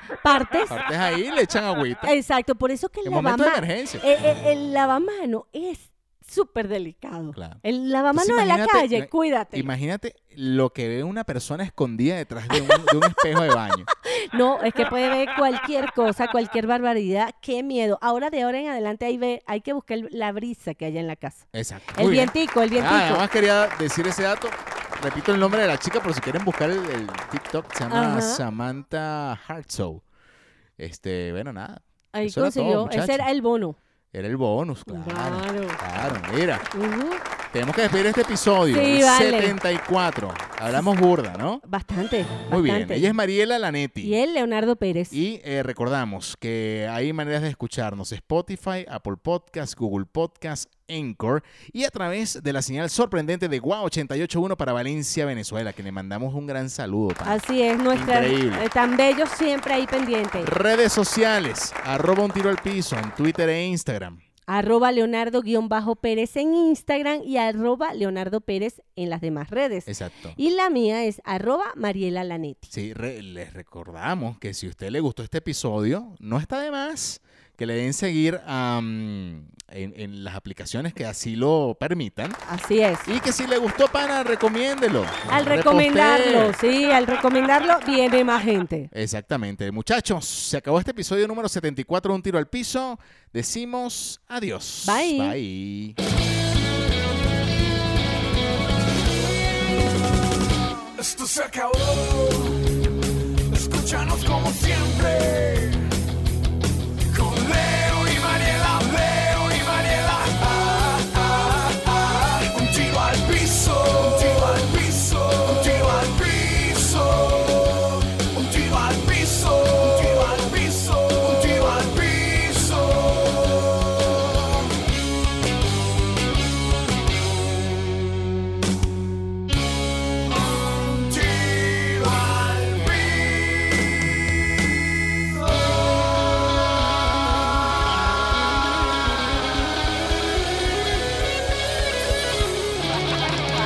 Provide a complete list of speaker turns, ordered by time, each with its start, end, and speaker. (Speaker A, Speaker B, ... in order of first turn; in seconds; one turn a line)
Speaker A: 0.2-0.8
Speaker B: 0.7-2.1
Speaker A: 2.0-9.7
Speaker B: 3.0-4.0
Speaker B: 7.3-7.6
Speaker B: 8.1-13.9
Speaker A: 12.5-13.1
Speaker A: 14.1-23.2
Speaker B: 21.5-30.0
Speaker A: 27.9-28.4
Speaker B: 30.8-33.3
Speaker A: 32.1-33.8
Speaker B: 34.1-36.7
Speaker A: 34.9-35.8
Speaker A: 36.7-37.2
Speaker B: 37.5-41.6
Speaker A: 38.7-39.6
Speaker A: 41.6-43.1
Speaker B: 42.5-44.2
Speaker A: 44.0-45.2
Speaker B: 45.1-58.6
Speaker A: 57.2-60.5
Speaker B: 60.4-64.2
Speaker A: 64.5-72.7
Speaker B: 69.9-70.4
Speaker B: 72.7-82.4
Speaker A: 82.5-83.1
Speaker B: 83.0-86.6
Speaker A: 85.3-88.9
Speaker B: 88.9-96.0
Speaker A: 94.8-95.3
Speaker C: 101.0-102.6
Speaker C: 103.5-105.9
Speaker C: 107.1-124.3
Speaker C: 130.3-133.7
Speaker C: 135.3-136.3